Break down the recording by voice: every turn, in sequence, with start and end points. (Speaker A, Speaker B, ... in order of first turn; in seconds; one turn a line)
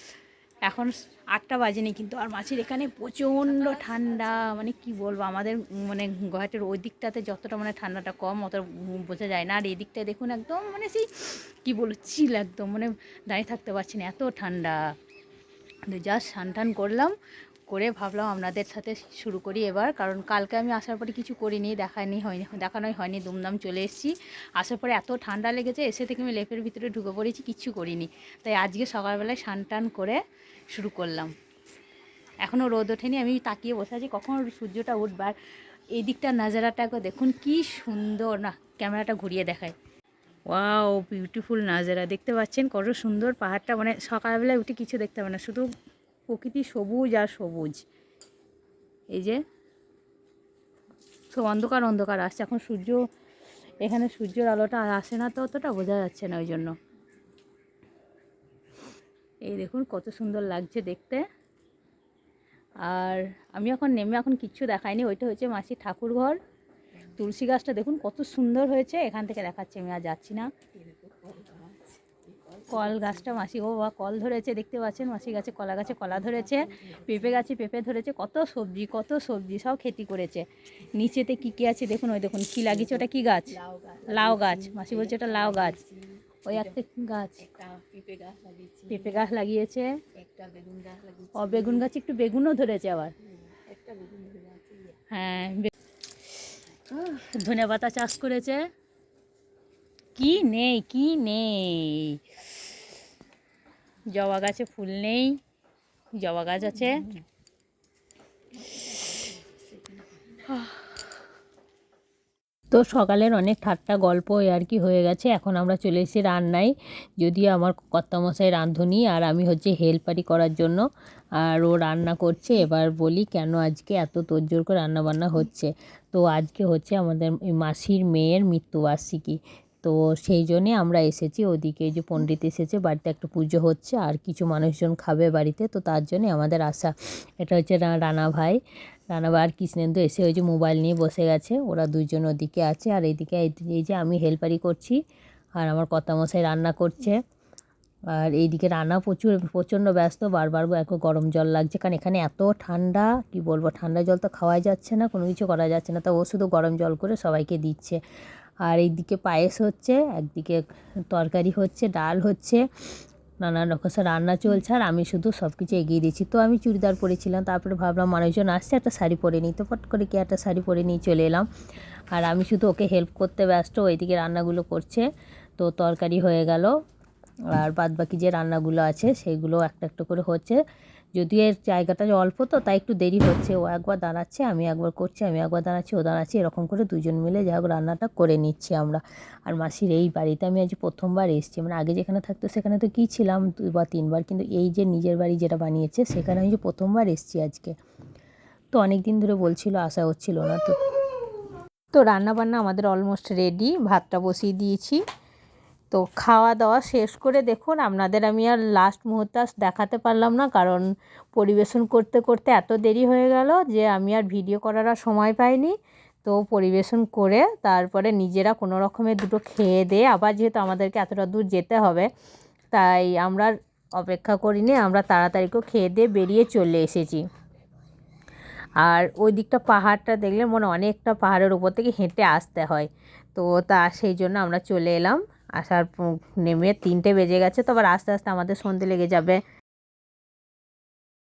Speaker A: 0.7-14.8
Speaker A: 15.9-17.1
Speaker A: 17.7-30.2
Speaker A: 30.7-31.3
Speaker A: 32.4-35.3
Speaker A: 36.0-39.7
Speaker A: 40.5-45.7
Speaker A: 46.3-47.8
Speaker A: 49.1-49.4
Speaker A: 51.3-53.0
Speaker A: 53.8-56.7
Speaker A: 59.5-61.2
Speaker A: 62.8-66.4
Speaker A: 67.2-70.5
Speaker B: 71.1-71.8
Speaker A: 72.7-85.8
Speaker B: 83.7-84.0
Speaker A: 86.5-87.5
Speaker B: 87.6-88.9
Speaker A: 88.9-89.9
Speaker B: 90.2-91.3
Speaker A: 91.3-93.1
Speaker B: 93.7-94.9
Speaker A: 95.1-95.7
Speaker A: 96.9-98.6
Speaker A: 100.2-102.2
Speaker A: 104.1-105.3
Speaker A: 106.2-107.1
Speaker A: 112.7-120.8
Speaker A: 121.4-138.6
Speaker A: 139.1-145.0
Speaker A: 145.6-147.2
Speaker A: 148.1-158.0
Speaker A: 158.7-160.6
Speaker A: 161.1-162.6
Speaker A: 163.4-171.4
Speaker A: 172.1-175.0
Speaker A: 175.6-176.7
Speaker A: 177.5-180.6
Speaker A: 181.2-197.7
Speaker A: 198.7-200.8
Speaker A: 201.9-205.0
Speaker A: 205.9-222.1
Speaker A: 222.7-227.2
Speaker A: 228.8-239.4